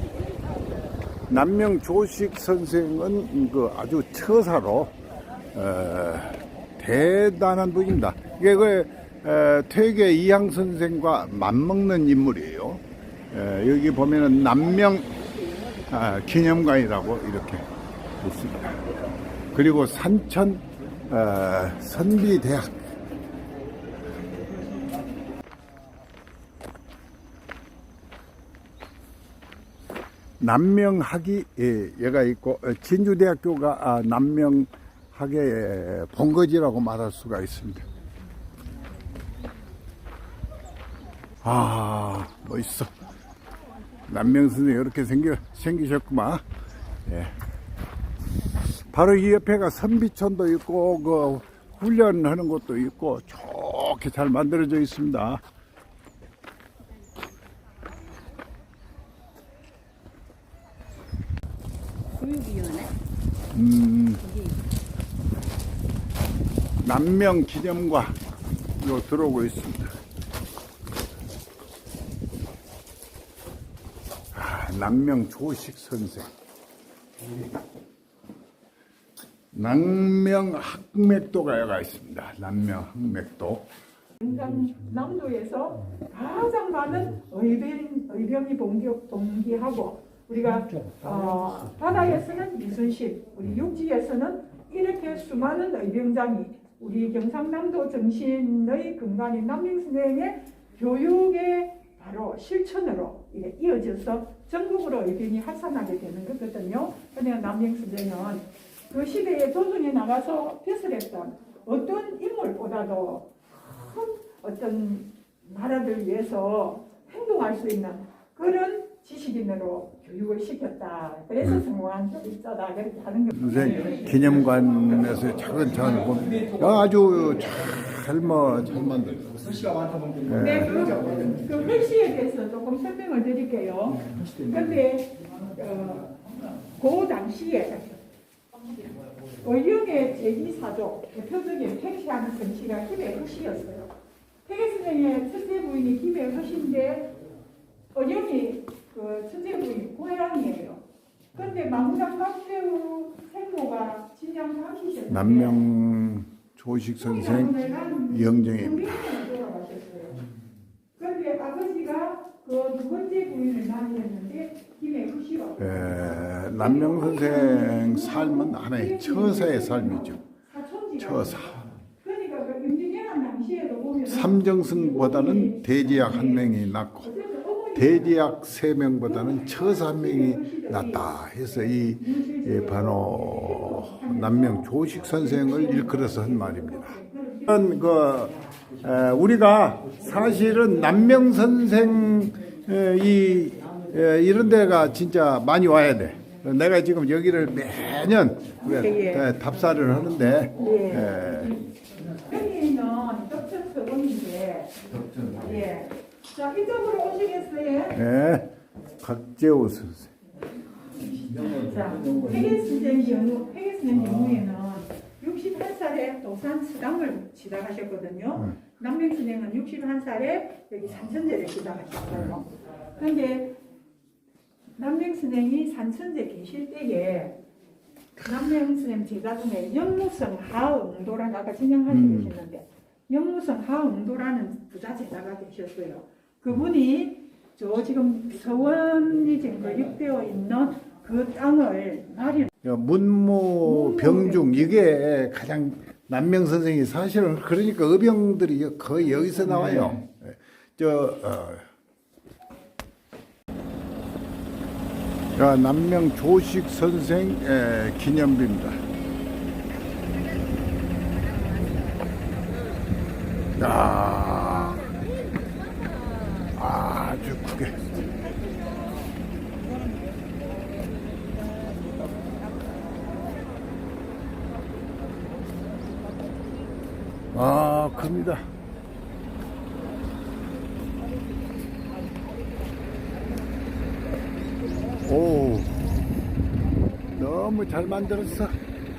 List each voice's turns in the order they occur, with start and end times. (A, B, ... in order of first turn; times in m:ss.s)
0:01.3-0:04.9 A
0:05.5-0:15.2 A
0:15.8-0:17.7 A
0:18.2-0:18.9 A
0:19.5-0:22.9 A
0:30.4-0:37.8 A
0:41.4-0:42.9 A
0:44.1-0:46.4 A
0:47.0-0:47.3 A
0:48.7-0:55.4 A
1:02.2-1:02.9 B
1:03.5-1:04.3 A
1:04.2-1:04.6 B
1:06.8-1:08.2 A
1:08.7-1:10.0 A
1:14.3-1:16.3 A
1:19.5-1:23.7 A
1:24.2-2:04.2 C
2:03.3-2:09.5 A
2:10.2-2:10.9 A
2:10.3-2:16.1 C
2:16.7-2:18.0 C
2:19.4-2:23.9 C
2:24.4-2:27.1 C
2:27.9-2:30.8 C
2:31.3-2:35.7 C
2:35.1-2:39.2 A
2:37.0-2:40.2 C
2:41.0-2:51.4 C
2:45.6-2:50.2 A
2:51.0-2:51.6 A
2:52.0-2:58.2 C
2:54.0-2:57.1 A
2:57.7-3:21.6 A
2:59.0-3:08.5 C
3:18.6-3:19.3 C
3:20.5-3:21.6 C
3:22.2-3:28.0 C
3:27.9-3:28.5 A
3:29.0-3:30.1 A
3:31.0-3:43.6 C
3:44.8-3:47.4 C
3:48.2-4:02.5 C
3:51.9-3:52.3 A
4:02.6-4:11.6 A
4:03.6-4:04.5 C
4:15.4-4:18.8 A
4:21.3-4:22.0 B
4:23.6-4:24.9 A
4:26.5-4:27.9 A
4:28.2-4:28.9 B
4:37.3-4:38.4 A
4:45.0-4:45.8 A
4:47.1-4:48.6 A